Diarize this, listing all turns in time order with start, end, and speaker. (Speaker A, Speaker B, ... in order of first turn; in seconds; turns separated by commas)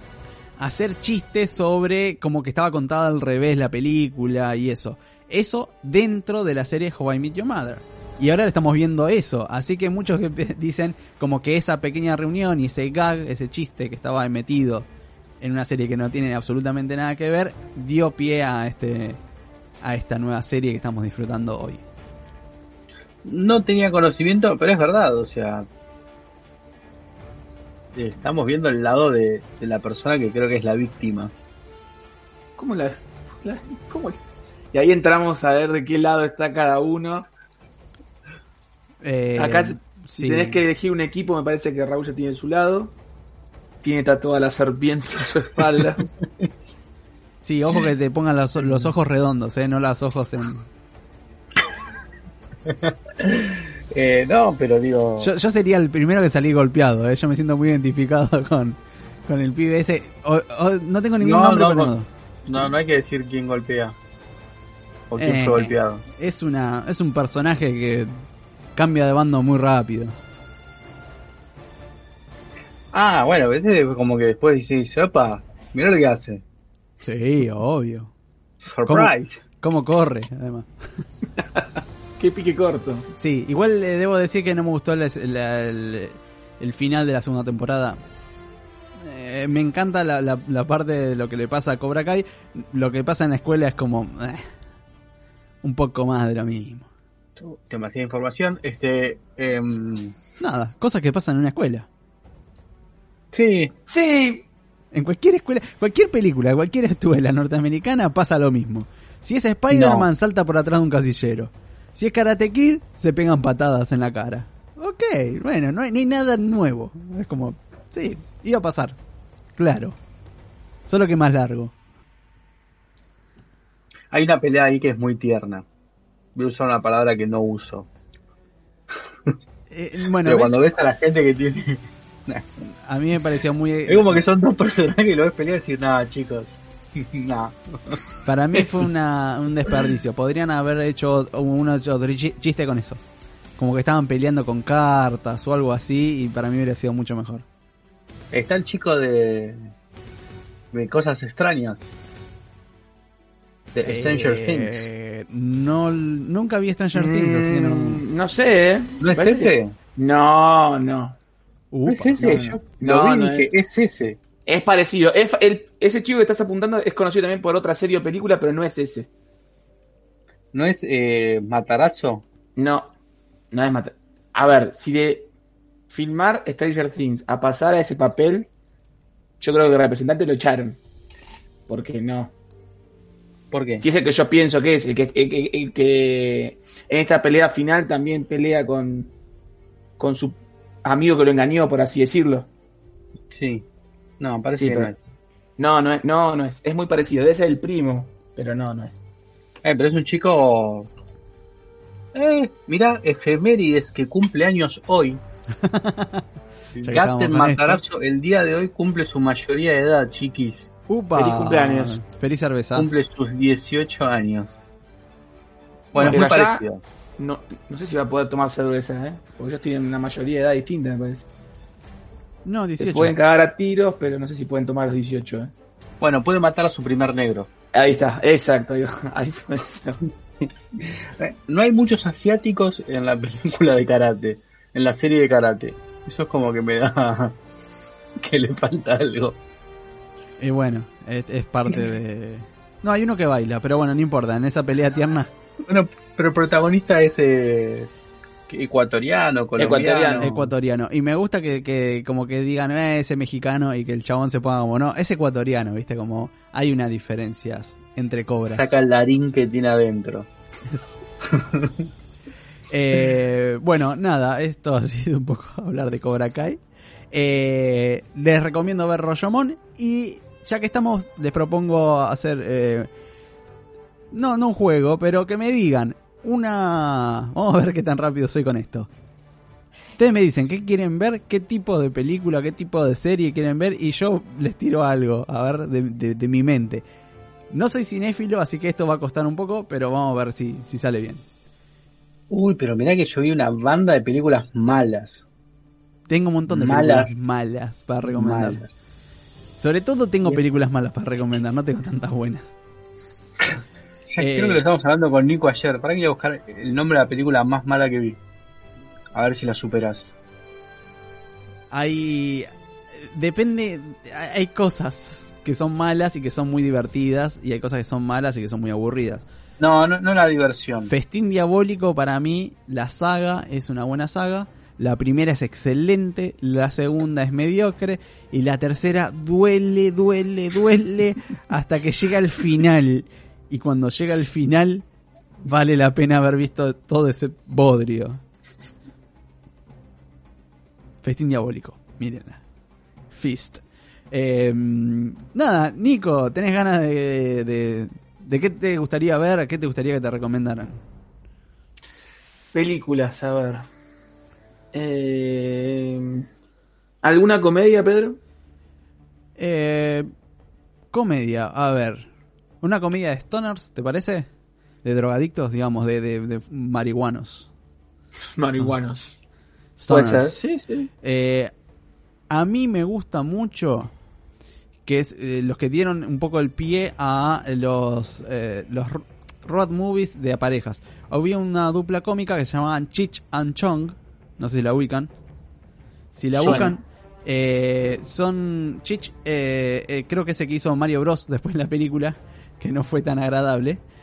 Speaker A: 0.6-14.9, Speaker A: 15.4-19.2, Speaker A: 19.8-21.8, Speaker B: 23.2-25.7, Speaker B: 27.9-31.3, Speaker C: 32.6-34.2, Speaker C: 34.7-37.3, Speaker A: 39.0-40.6, Speaker C: 39.4-42.9, Speaker C: 43.8-46.0, Speaker A: 47.4-50.7, Speaker B: 52.6-55.3, Speaker A: 55.2-62.6, Speaker B: 61.2-61.9, Speaker B: 62.5-64.0, Speaker B: 65.1-66.0, Speaker A: 65.2-68.2, Speaker A: 68.8-70.2, Speaker B: 72.9-76.4, Speaker A: 77.0-78.1, Speaker B: 78.6-79.4, Speaker A: 78.8-80.7, Speaker C: 82.2-83.0, Speaker A: 83.2-88.0, Speaker A: 89.0-94.5, Speaker A: 95.6-96.9, Speaker B: 97.4-100.1, Speaker A: 100.4-101.9, Speaker B: 103.3-103.7, Speaker C: 103.9-104.5, Speaker A: 104.9-119.0, Speaker B: 109.7-110.1, Speaker A: 119.5-120.0, Speaker A: 120.9-121.7, Speaker B: 124.1-125.7, Speaker B: 126.3-127.9, Speaker A: 129.7-130.6, Speaker B: 130.2-132.5, Speaker A: 132.6-134.2, Speaker B: 133.9-138.0, Speaker A: 138.2-143.0, Speaker A: 143.6-147.4, Speaker B: 148.3-149.7, Speaker B: 150.7-151.9, Speaker B: 153.7-154.8, Speaker A: 153.8-158.0, Speaker C: 156.9-161.2, Speaker B: 159.0-159.8, Speaker A: 161.7-162.3, Speaker B: 161.9-164.2, Speaker C: 162.2-163.5, Speaker C: 164.4-169.1, Speaker B: 170.5-172.2, Speaker C: 172.6-172.9, Speaker C: 173.5-175.3, Speaker C: 175.9-178.5, Speaker C: 179.4-180.8, Speaker C: 181.7-182.3, Speaker B: 183.5-183.8, Speaker C: 183.8-189.1, Speaker C: 190.0-192.5, Speaker B: 193.3-193.7, Speaker B: 194.2-195.0, Speaker C: 194.6-194.9, Speaker C: 195.6-199.0, Speaker B: 199.6-200.9, Speaker B: 202.1-205.2, Speaker A: 205.6-206.2, Speaker B: 206.7-210.7, Speaker A: 206.8-207.8, Speaker A: 210.9-212.9, Speaker C: 211.1-212.0, Speaker B: 212.7-214.6, Speaker B: 215.9-216.8, Speaker A: 215.9-216.2, Speaker C: 216.1-216.6, Speaker C: 217.2-221.3, Speaker A: 222.4-223.2, Speaker C: 222.8-225.5, Speaker B: 226.0-227.5, Speaker C: 227.7-230.0, Speaker B: 230.9-237.4, Speaker B: 238.2-239.4, Speaker A: 240.4-245.3, Speaker B: 245.7-247.9, Speaker B: 248.5-250.4, Speaker C: 249.6-250.3, Speaker A: 250.2-258.7, Speaker B: 258.5-260.3, Speaker A: 260.7-261.0, Speaker B: 261.3-261.9, Speaker A: 262.7-266.6, Speaker A: 267.1-272.9, Speaker A: 274.1-278.9, Speaker A: 280.0-286.8, Speaker A: 287.5-291.2, Speaker B: 292.3-295.2, Speaker A: 296.1-298.6, Speaker B: 296.5-297.1, Speaker B: 298.1-298.7, Speaker A: 299.6-302.5, Speaker B: 304.1-308.2, Speaker A: 304.2-304.6, Speaker B: 309.1-310.1, Speaker A: 311.7-319.2, Speaker B: 319.6-320.9, Speaker A: 320.9-334.8, Speaker A: 335.4-338.2, Speaker A: 341.0-342.4, Speaker A: 343.1-350.8, Speaker C: 352.5-353.6, Speaker C: 354.7-356.3, Speaker C: 357.0-358.2, Speaker A: 359.4-360.1, Speaker A: 360.9-362.1, Speaker A: 362.6-364.3, Speaker A: 364.8-367.5, Speaker C: 368.4-369.2, Speaker A: 369.8-370.4, Speaker C: 369.9-370.9, Speaker A: 371.0-371.5, Speaker A: 372.3-373.9, Speaker A: 374.9-385.1, Speaker A: 386.1-393.8, Speaker C: 386.3-386.8